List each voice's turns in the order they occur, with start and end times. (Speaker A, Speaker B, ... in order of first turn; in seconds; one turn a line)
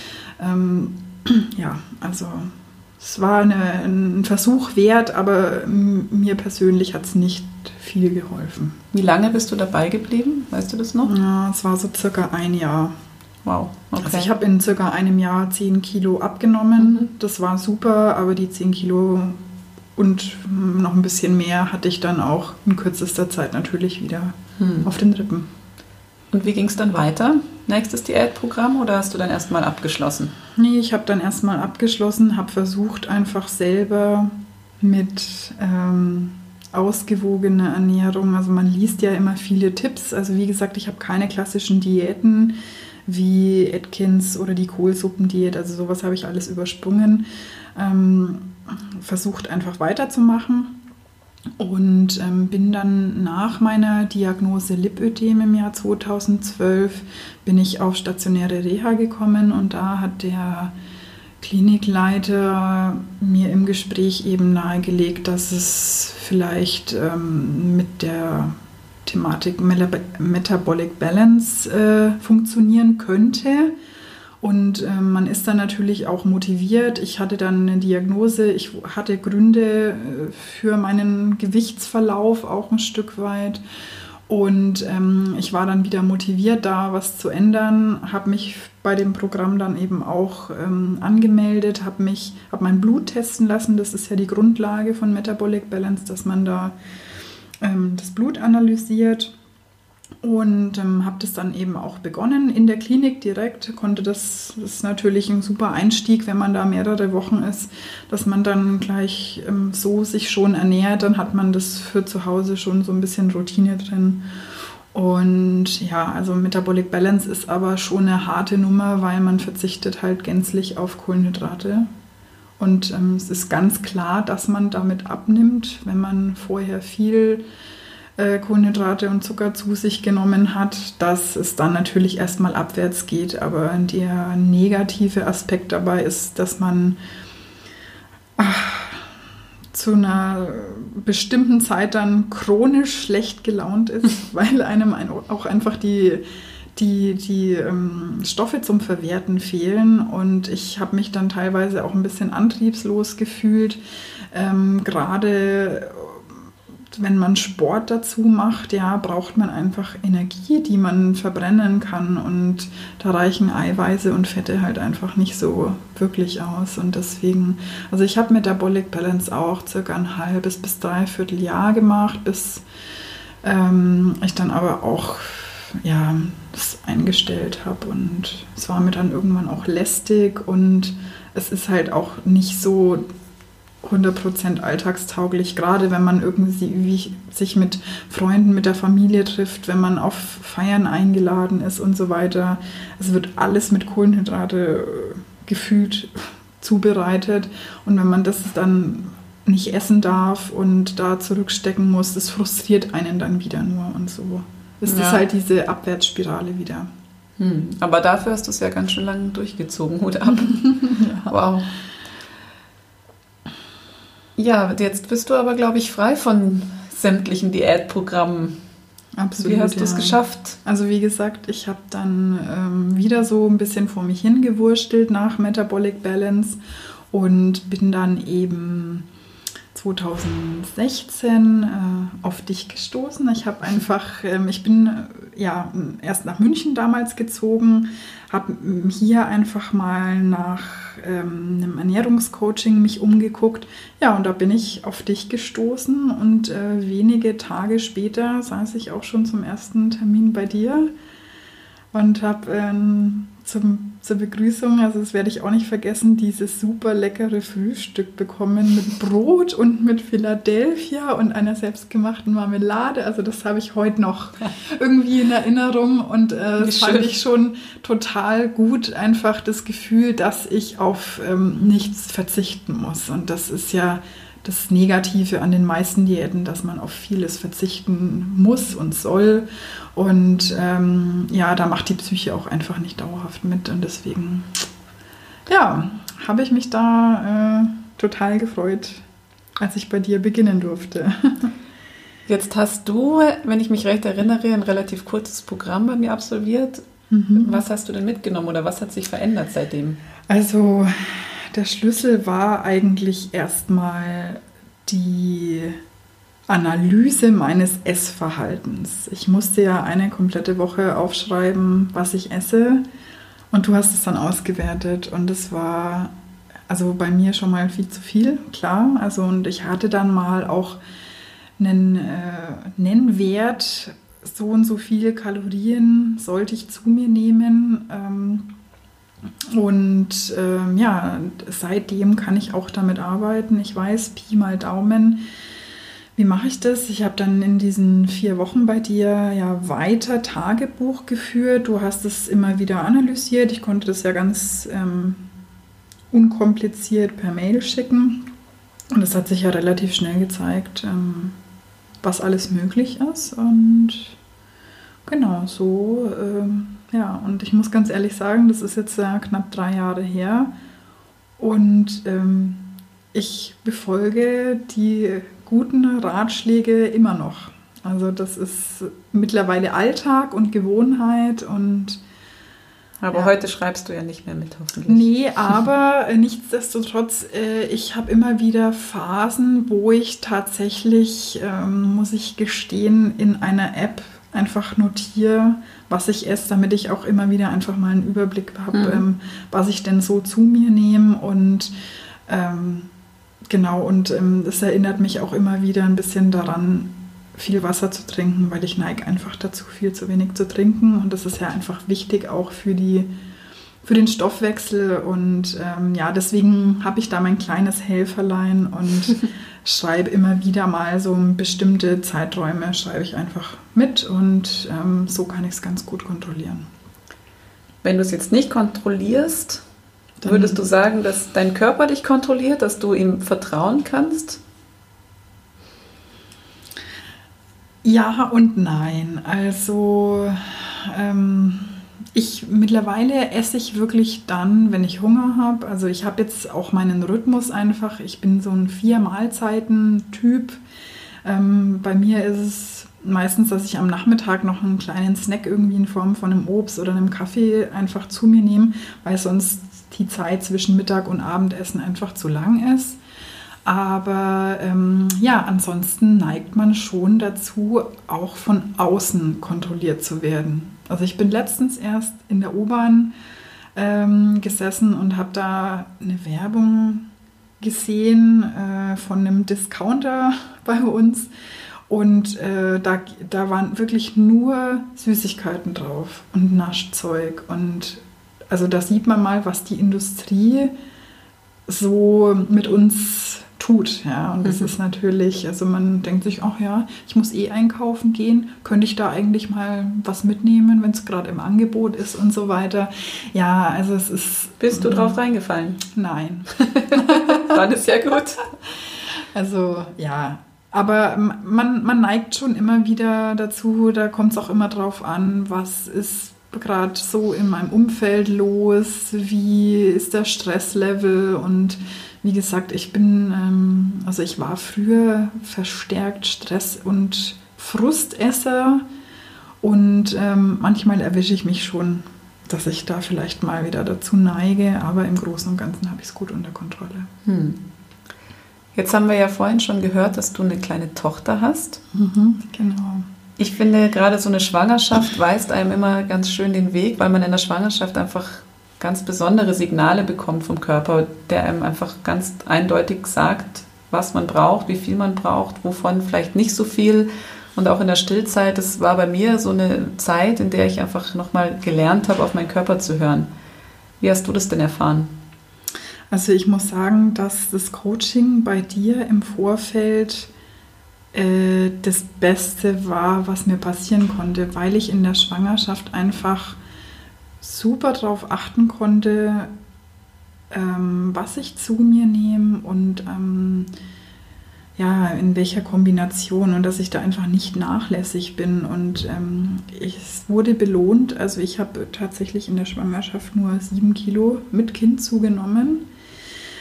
Speaker A: 0.4-8.8
Speaker B: 8.9-11.1
Speaker A: 11.0-12.9
Speaker B: 13.4-14.3
Speaker A: 14.0-19.4
Speaker B: 16.8-17.1
Speaker A: 19.9-25.5
Speaker B: 24.6-24.9
Speaker B: 26.3-30.3
Speaker A: 30.6-50.8
Speaker A: 51.6-60.7
Speaker A: 61.4-73.7
Speaker A: 74.4-83.6
Speaker A: 84.3-96.8
Speaker A: 97.6-99.3
Speaker A: 100.2-114.2
Speaker A: 114.9-121.9
Speaker A: 122.6-127.4
Speaker A: 128.2-137.0
Speaker A: 138.4-139.1
Speaker A: 139.7-146.2
Speaker A: 146.7-153.8
Speaker A: 154.3-156.4
Speaker A: 156.9-172.6
Speaker A: 173.4-183.0
Speaker A: 183.8-206.9
Speaker B: 204.9-205.2
Speaker B: 207.4-210.7
Speaker A: 210.3-211.3
Speaker B: 211.3-211.8
Speaker B: 214.4-218.6
Speaker A: 219.2-226.6
Speaker B: 219.4-220.6
Speaker A: 227.1-229.1
Speaker A: 229.7-250.9
Speaker A: 251.9-284.5
Speaker B: 266.6-267.1
Speaker A: 285.5-289.0
Speaker A: 289.6-291.5
Speaker B: 292.3-300.0
Speaker A: 297.1-297.6
Speaker A: 300.3-305.8
Speaker A: 306.5-312.8
Speaker A: 313.5-316.1
Speaker A: 316.7-320.8
Speaker A: 321.6-328.5
Speaker A: 329.5-335.2
Speaker A: 336.1-345.2
Speaker A: 346.1-348.2
Speaker A: 348.9-351.4
Speaker A: 352.0-354.1
Speaker A: 355.1-360.5
Speaker A: 361.4-372.0
Speaker B: 373.0-375.1
Speaker A: 374.9-391.7
Speaker B: 388.7-389.0
Speaker A: 392.3-392.9
Speaker A: 393.5-403.1
Speaker A: 403.8-416.7
Speaker B: 417.8-419.6
Speaker A: 420.2-420.7
Speaker B: 420.2-424.4
Speaker A: 427.8-440.6
Speaker A: 441.2-453.0
Speaker A: 453.6-463.1
Speaker A: 463.7-467.1
Speaker A: 467.6-471.3
Speaker A: 471.9-480.7
Speaker A: 481.7-495.2
Speaker B: 494.6-495.8
Speaker A: 495.8-497.6
Speaker B: 496.5-498.4
Speaker A: 498.7-518.8
Speaker A: 519.6-527.1
Speaker B: 527.2-527.6
Speaker B: 528.7-531.8
Speaker A: 531.9-533.0
Speaker B: 533.4-553.3
Speaker B: 554.0-555.1
Speaker A: 556.1-560.3
Speaker A: 561.1-566.6
Speaker A: 567.4-569.5
Speaker A: 570.5-573.7
Speaker A: 574.8-585.9